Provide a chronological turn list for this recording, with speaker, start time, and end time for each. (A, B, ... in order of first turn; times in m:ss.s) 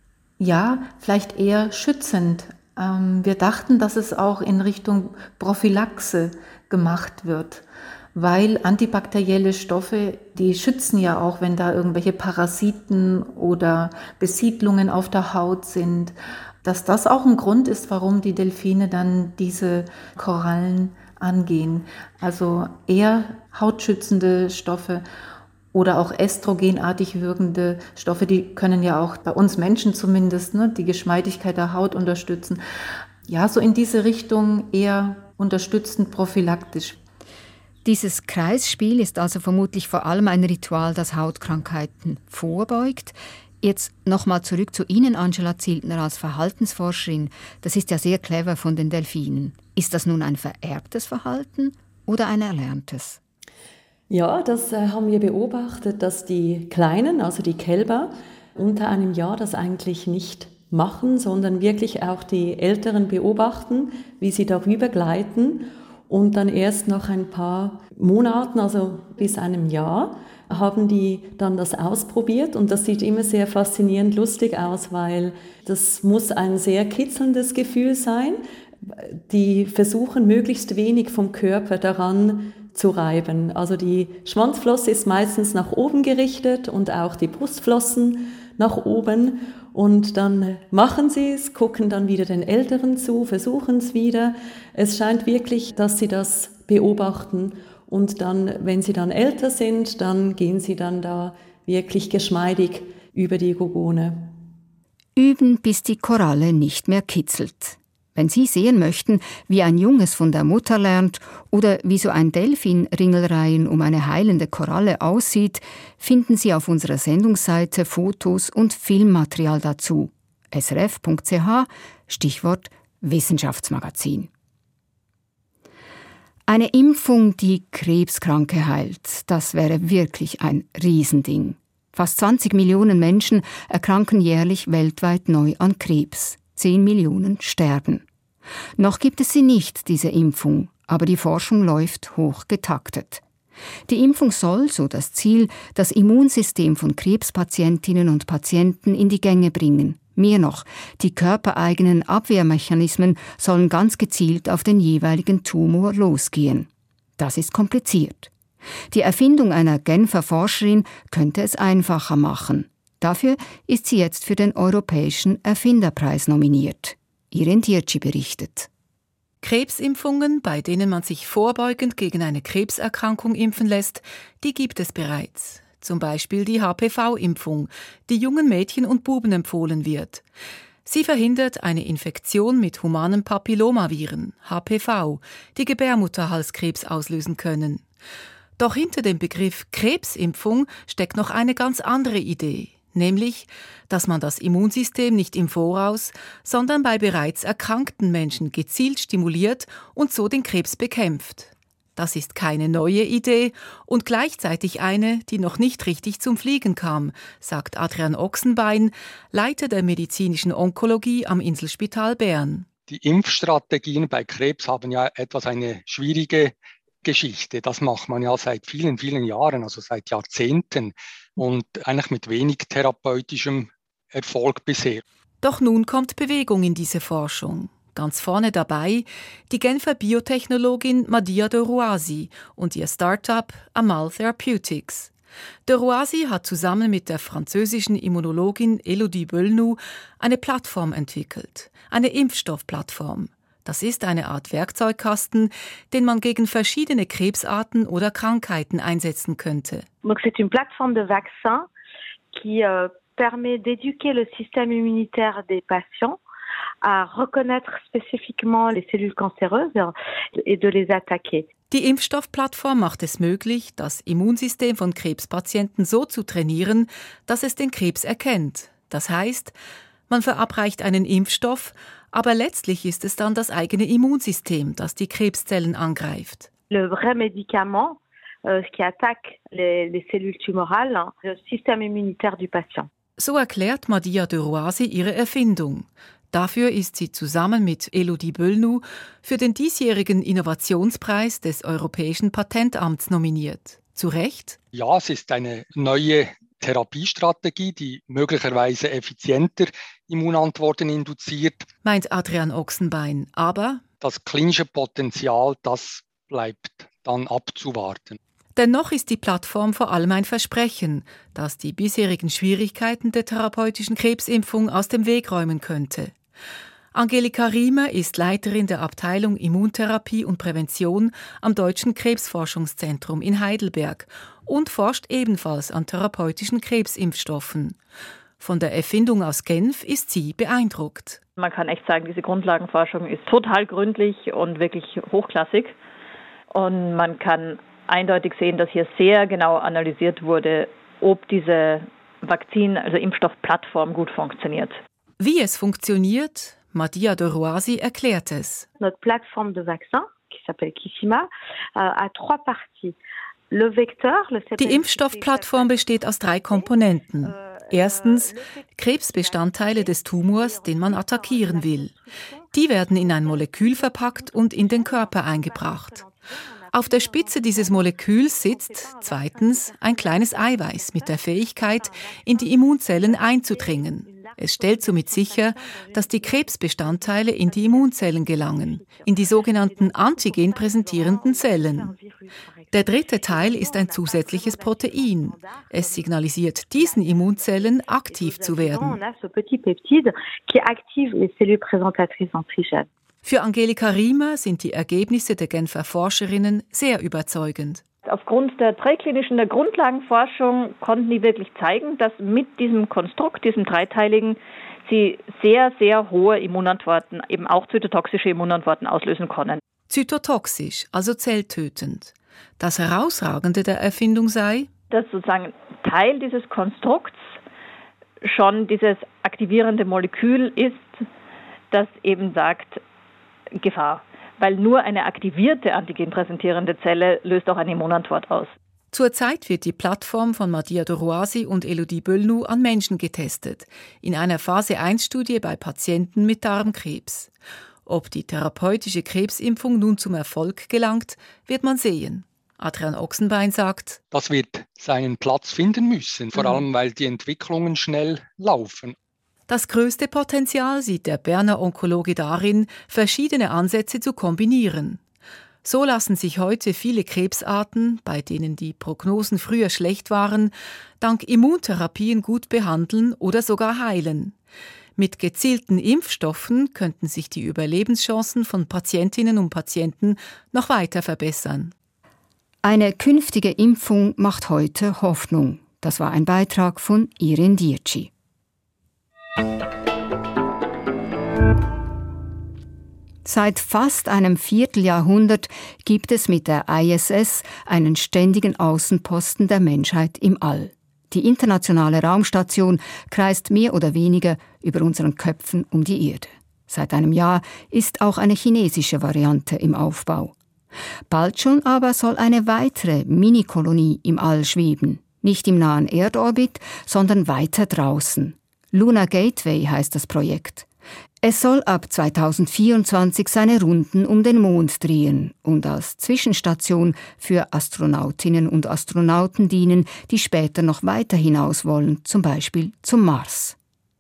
0:00.4-0:25.0 A
0:25.7-0:32.6 A
0:33.3-0:37.0 A
0:37.8-0:53.2 B
0:54.1-1:44.4 C
1:45.2-2:04.3 B
2:06.5-2:18.0 B
2:18.8-2:23.2 B
2:23.9-2:38.3 B
2:38.9-2:48.7 B
2:49.4-3:00.2 D
3:00.9-3:07.8 D
3:08.6-3:32.7 D
3:32.9-3:45.0 E
3:45.4-3:55.1 D
3:55.7-4:09.9 D
4:10.0-4:11.7 F
4:12.3-4:16.2 F
4:16.8-4:21.5 F
4:21.7-4:29.6 D
4:30.1-4:36.5 D
4:36.7-4:42.9 F
4:43.2-4:54.6 D
4:54.7-5:01.7 E
5:01.8-5:03.8 D
5:04.0-5:08.2 E
5:08.6-5:16.2 D
5:16.9-5:27.8 D
5:28.4-5:31.2 D
5:31.4-5:35.8 G
5:36.5-5:44.8 G
5:45.2-5:48.7 D
5:48.8-5:53.0 F
5:53.5-6:32.9 F
5:54.6-6:01.9 D
6:02.5-6:06.0 D
6:06.7-6:22.0 D
6:22.7-6:29.0 D
6:33.2-6:37.8 D
6:38.1-6:49.6 G
6:49.9-6:54.7 D
6:54.9-6:57.3 G
6:58.2-7:01.0 G
7:01.7-7:02.8 G
7:03.6-7:08.5 G
7:08.9-7:17.3 D
7:17.9-7:24.0 D
7:24.1-7:29.0 E
7:29.5-7:35.0 D
7:35.6-7:44.4 D
7:45.0-7:51.7 D
7:52.6-7:58.1 B
8:03.2-8:20.4 B
8:21.1-8:30.7 B
8:31.2-8:43.6 B